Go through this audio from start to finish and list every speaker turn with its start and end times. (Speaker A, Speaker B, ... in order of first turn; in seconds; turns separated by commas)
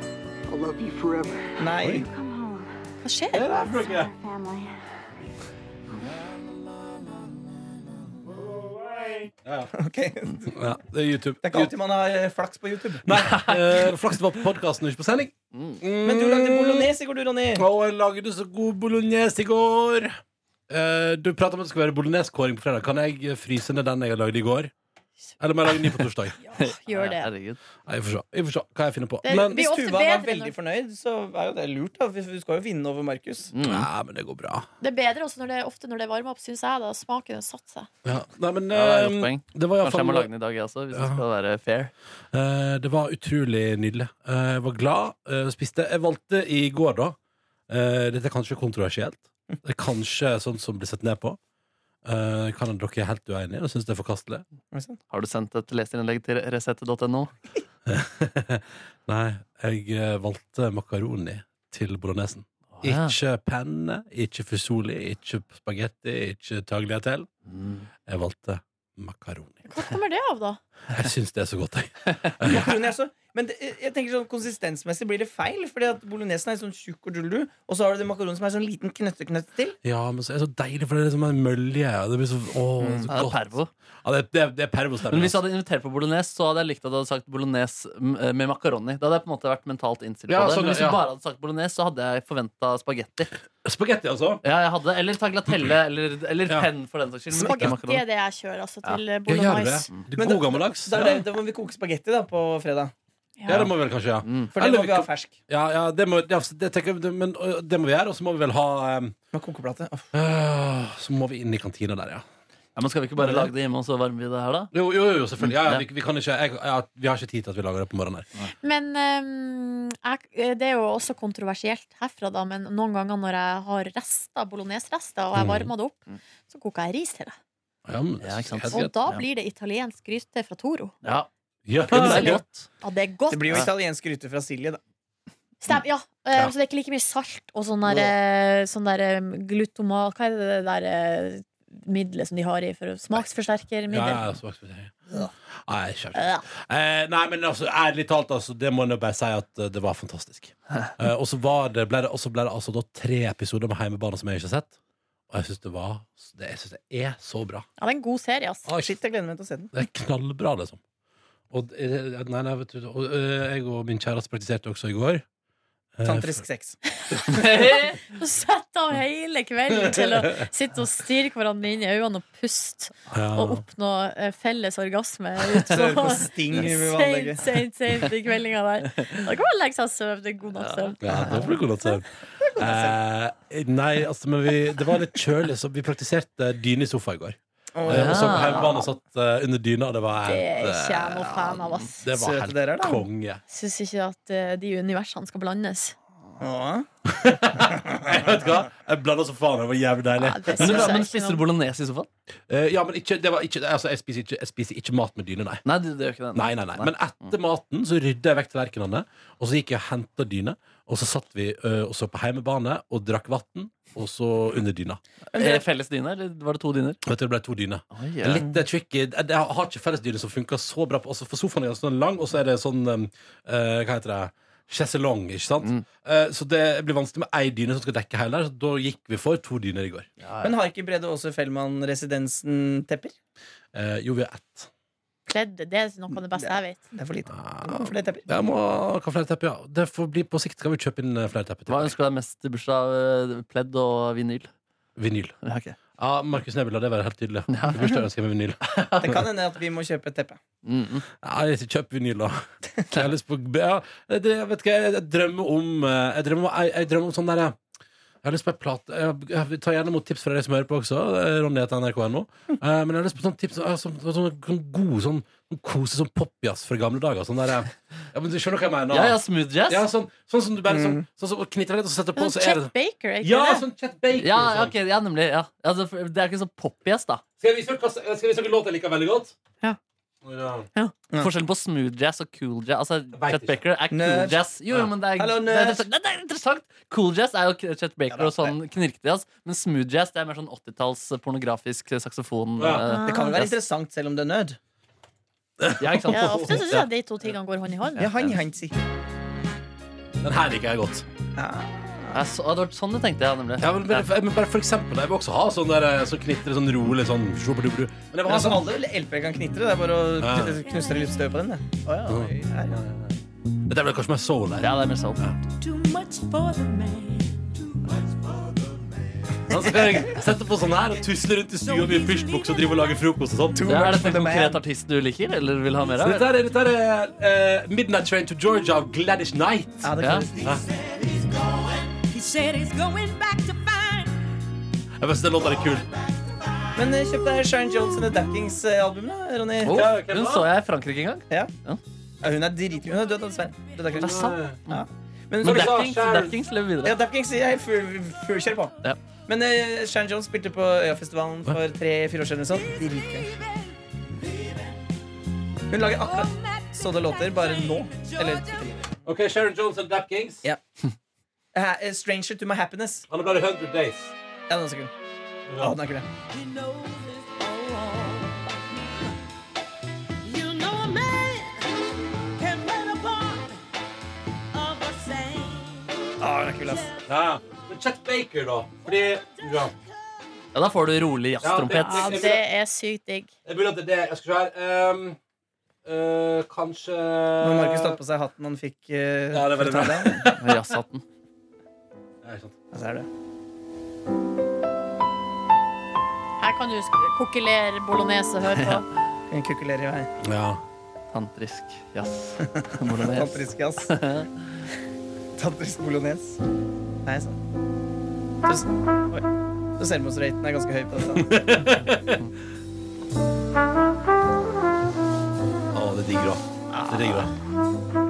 Speaker A: 0.5-2.7, Speaker B: 1.6-2.1, Speaker C: 1.8-2.1, Speaker D: 3.0-3.5, Speaker C: 3.3-4.1, Speaker A: 3.5-4.7, Speaker C: 9.4-9.7, Speaker B: 9.7-10.5, Speaker C: 10.5-11.7, Speaker B: 11.4-13.1, Speaker C: 13.0-16.9, Speaker E: 13.2-13.9, Speaker E: 15.5-15.8, Speaker B: 16.0-17.6, Speaker C: 17.5-20.2, Speaker C: 20.7-24.7, Speaker C: 25.4-26.4, Speaker D: 26.4-27.3, Speaker E: 26.6-27.6, Speaker C: 27.9-29.6, Speaker D: 29.2-30.5, Speaker B: 29.3-33.5, Speaker E: 33.5-33.9, Speaker C: 33.6-34.7, Speaker D: 34.8-37.9, Speaker C: 38.0-40.3, Speaker E: 38.7-41.9, Speaker C: 40.9-41.2, Speaker C: 42.3-47.2, Speaker C: 47.7-51.4, Speaker C: 52.0-54.4, Speaker B: 54.7-55.0, Speaker E: 55.1-57.3, Speaker C: 57.9-67.3, Speaker E: 62.7-63.1, Speaker E: 67.5-67.8, Speaker C: 68.1-69.6, Speaker D: 69.7-70.6, Speaker C: 70.9-72.7, Speaker B: 72.4-79.8, Speaker C: 79.8-83.5, Speaker E: 83.0-83.7, Speaker C: 84.0-85.4, Speaker E: 85.1-93.3, Speaker C: 90.3-91.0, Speaker C: 93.6-94.4, Speaker E: 94.4-98.0, Speaker D: 97.4-99.9, Speaker C: 99.3-101.2, Speaker B: 100.2-102.9, Speaker D: 103.4-103.7, Speaker C: 103.5-109.2, Speaker E: 104.2-104.5, Speaker B: 104.5-105.3, Speaker B: 109.3-110.1, Speaker C: 110.1-112.2, Speaker E: 112.8-114.7, Speaker B: 113.2-113.5, Speaker C: 114.7-118.2, Speaker E: 115.4-115.8, Speaker D: 118.6-127.4, Speaker C: 125.3-125.7, Speaker C: 127.8-128.9, Speaker E: 128.2-129.2, Speaker D: 128.7-130.9, Speaker C: 131.7-132.4, Speaker E: 131.9-132.6, Speaker D: 131.9-133.7, Speaker B: 133.3-134.8, Speaker D: 135.6-144.3, Speaker C: 143.9-144.9, Speaker C: 145.7-154.7, Speaker D: 146.1-146.4, Speaker C: 155.3-157.7, Speaker D: 157.8-158.7, Speaker C: 158.7-158.9, Speaker B: 158.8-159.7, Speaker C: 159.7-160.8, Speaker C: 161.5-165.2, Speaker C: 166.0-166.4, Speaker B: 166.0-166.8, Speaker D: 167.1-181.5, Speaker E: 167.3-168.0, Speaker C: 169.8-170.4, Speaker C: 173.1-173.6, Speaker B: 175.6-177.6, Speaker E: 180.6-180.9, Speaker C: 181.0-193.4, Speaker B: 181.2-181.5, Speaker B: 182.4-182.9, Speaker B: 187.8-188.9, Speaker E: 187.9-188.7, Speaker D: 190.2-192.0, Speaker B: 192.1-193.0, Speaker D: 193.5-195.9, Speaker B: 196.4-196.9, Speaker C: 197.1-201.0, Speaker D: 200.2-201.4, Speaker E: 200.6-202.1, Speaker C: 202.5-205.6, Speaker E: 205.6-207.3, Speaker C: 206.3-215.0, Speaker E: 215.3-217.0, Speaker B: 215.3-215.6, Speaker C: 217.0-230.1, Speaker E: 217.9-218.5, Speaker E: 230.2-230.6, Speaker B: 230.4-233.1, Speaker C: 233.7-234.7, Speaker D: 235.3-236.8, Speaker B: 236.4-238.3, Speaker C: 237.3-241.9, Speaker E: 241.7-244.5, Speaker C: 245.0-245.3, Speaker E: 245.4-245.8, Speaker C: 246.0-249.2, Speaker E: 247.5-248.0, Speaker E: 248.7-249.2, Speaker B: 249.0-250.4, Speaker E: 250.6-251.1, Speaker C: 251.2-257.6, Speaker C: 258.2-274.7, Speaker E: 268.9-269.9, Speaker B: 270.7-271.0, Speaker D: 272.1-273.6, Speaker E: 274.1-277.2, Speaker C: 277.4-279.3, Speaker C: 280.2-280.7, Speaker E: 281.2-293.5, Speaker C: 283.1-283.6, Speaker B: 283.9-284.4, Speaker B: 285.2-285.8, Speaker B: 288.1-288.5, Speaker C: 292.6-292.8, Speaker D: 292.8-293.4, Speaker B: 293.1-294.6, Speaker C: 295.6-296.9, Speaker E: 295.8-296.6, Speaker D: 296.1-298.1, Speaker B: 298.0-298.7, Speaker E: 298.0-298.3, Speaker C: 300.2-301.1, Speaker B: 301.4-302.2, Speaker E: 302.1-304.1, Speaker C: 303.6-308.7, Speaker B: 308.2-312.8, Speaker C: 310.2-310.6, Speaker A: 310.6-311.4, Speaker C: 312.1-315.4, Speaker E: 314.6-315.2, Speaker A: 315.4-318.7, Speaker C: 319.5-323.8, Speaker A: 321.6-323.1, Speaker B: 323.5-324.6, Speaker E: 323.7-326.3, Speaker C: 326.0-330.6, Speaker B: 329.8-330.6, Speaker E: 330.0-330.3, Speaker A: 331.0-334.3, Speaker C: 335.0-335.9, Speaker B: 336.7-339.9, Speaker E: 339.6-341.8, Speaker C: 339.7-340.5, Speaker B: 342.2-345.8, Speaker C: 343.9-344.6, Speaker E: 344.0-344.8, Speaker C: 345.4-346.4, Speaker E: 345.4-347.0, Speaker B: 346.8-348.7, Speaker B: 349.3-353.4, Speaker A: 352.5-354.7, Speaker B: 355.7-358.8, Speaker A: 355.8-358.8, Speaker C: 359.0-360.4, Speaker B: 361.5-363.1, Speaker C: 363.1-364.1, Speaker B: 364.5-364.9, Speaker C: 365.5-365.8, Speaker B: 365.6-366.1, Speaker A: 366.3-368.8, Speaker A: 370.2-373.6, Speaker A: 374.5-377.0, Speaker B: 376.2-376.9, Speaker C: 377.1-379.7, Speaker E: 380.5-382.2, Speaker C: 381.4-382.4, Speaker D: 381.7-383.3, Speaker C: 383.4-385.2, Speaker C: 385.8-388.0, Speaker B: 387.4-390.3, Speaker C: 389.3-390.6, Speaker E: 390.2-391.0, Speaker C: 392.2-392.6, Speaker B: 392.7-393.1, Speaker D: 396.4-398.8, Speaker B: 399.3-400.1, Speaker C: 400.2-400.6, Speaker E: 401.1-404.3, Speaker B: 402.6-404.0, Speaker B: 405.4-406.4, Speaker B: 407.0-407.4, Speaker B: 408.4-409.2, Speaker B: 409.8-411.3, Speaker C: 411.1-412.2, Speaker C: 415.7-417.3, Speaker B: 416.7-417.3